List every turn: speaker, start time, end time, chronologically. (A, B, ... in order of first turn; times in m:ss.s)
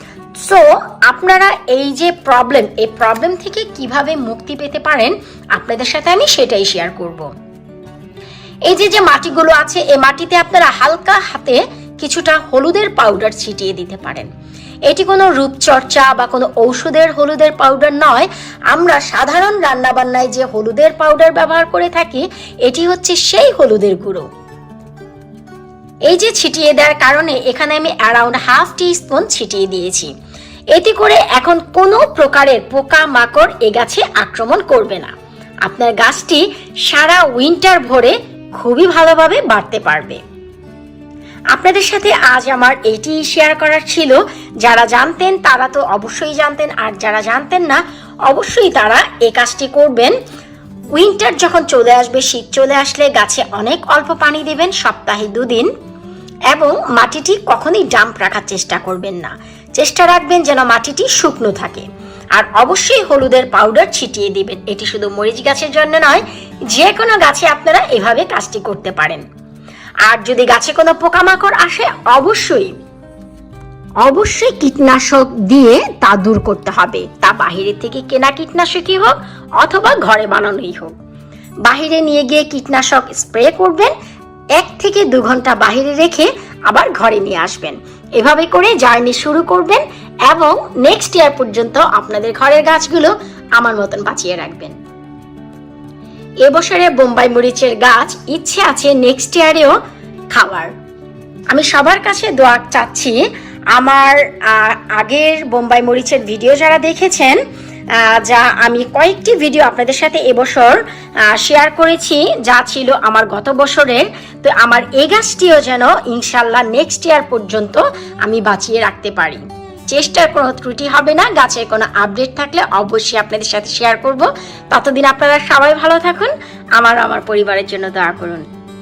0:00.4-0:07.3 A
0:08.7-0:14.3 A
0:14.9-0:24.3 A
0:26.1-0:30.1 A
0:30.7-0:35.1 A
0:35.6-0:40.2 A
0:41.5-0:50.1 A
0:50.9-0:55.7 A
0:56.5-1:09.2 A
1:10.0-1:12.7 A
1:14.0-1:20.9 A
1:21.6-1:23.9 A
1:24.6-1:34.7 A
1:36.4-1:39.7 A
1:40.3-1:40.7 A
1:41.5-1:43.2 A
1:43.7-1:47.4 A
1:48.0-2:08.4 A